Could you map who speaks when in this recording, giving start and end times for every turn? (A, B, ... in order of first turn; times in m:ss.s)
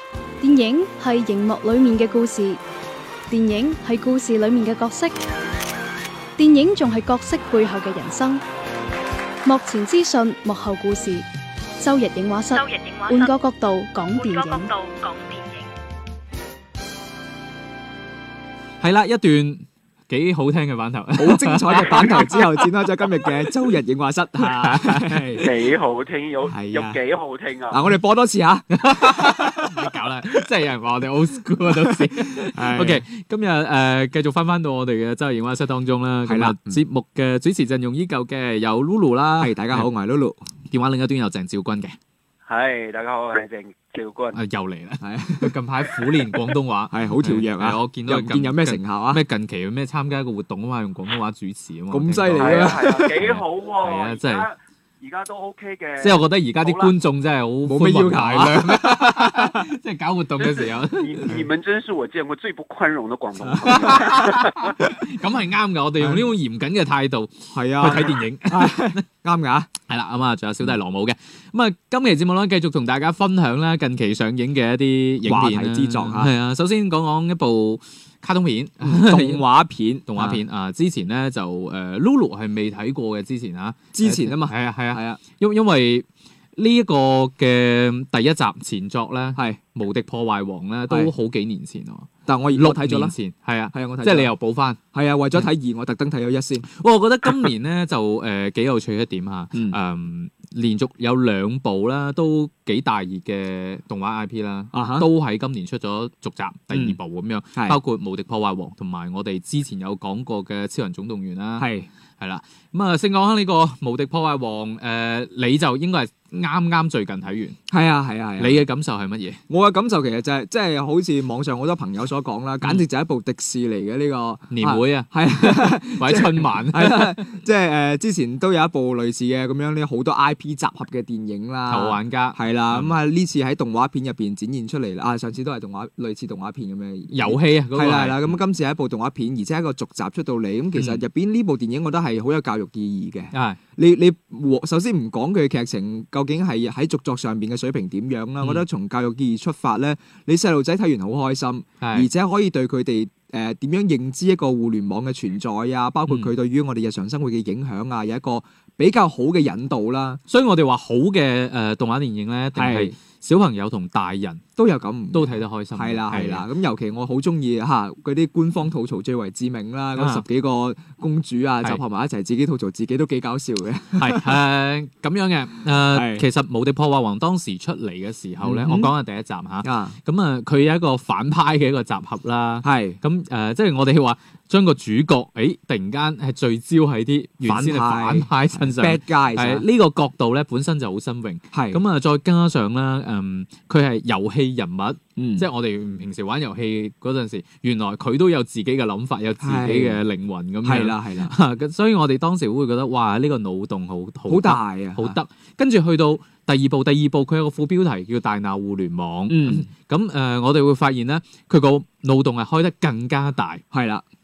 0:00.4-0:02.6 A
0:03.3-0:05.1 A
0:06.4-0:08.4 A
0:09.4-0:11.2 A
0:11.8-0:14.8 A
0:12.6-0:13.2 B
0:14.2-0:15.6 B
0:18.8-0:22.6 C
0:21.2-0:25.6 D
0:24.4-0:25.5 C
0:25.4-0:27.8 E
0:26.5-0:27.0 D
0:27.7-0:29.9 D
0:28.8-0:39.8 C
0:31.8-0:33.0 D
0:36.2-0:36.8 D
0:39.4-0:40.4 D
0:40.7-0:42.0 C
0:42.4-0:44.4 E
0:44.3-0:54.5 C
0:45.0-0:45.5 D
0:46.9-0:49.2 D
0:51.9-0:53.1 D
0:52.4-0:56.9 E
0:56.0-1:01.4 C
0:57.6-0:59.6 D
1:01.0-1:04.5 E
1:03.4-1:04.1 D
1:03.6-1:09.0 C
1:06.0-1:06.3 D
1:07.5-1:09.7 D
1:09.9-1:19.4 C
1:15.2-1:16.3 D
1:18.8-1:20.4 D
1:20.1-1:34.8 C
1:23.9-1:25.2 D
1:29.4-1:29.6 D
1:32.2-1:33.1 D
1:33.7-1:34.3 D
1:34.9-1:36.6 D
1:36.6-1:51.7 C
1:44.7-1:45.1 D
1:46.7-1:47.0 D
1:51.6-1:51.9 D
1:52.2-1:57.6 C
1:57.7-1:58.7 D
1:58.4-1:59.4 C
1:59.5-2:40.2 D
2:04.5-2:07.2 C
2:11.7-2:12.9 C
2:17.1-2:18.4 C
2:20.7-2:21.0 C
2:23.3-2:23.6 C
2:31.8-2:32.1 C
2:40.3-2:44.4 C
2:42.5-2:42.9 D
2:44.6-2:54.4 D
2:45.1-2:46.4 C
2:50.0-2:50.2 C
2:54.0-3:33.6 C
2:55.9-2:56.2 D
2:58.4-2:58.9 D
2:59.6-3:00.0 D
3:02.6-3:03.0 D
3:07.4-3:09.6 D
3:11.5-3:11.8 D
3:15.2-3:15.5 D
3:19.4-3:20.0 D
3:20.6-3:21.4 D
3:24.3-3:25.2 D
3:29.3-3:29.7 D
3:33.7-3:34.0 D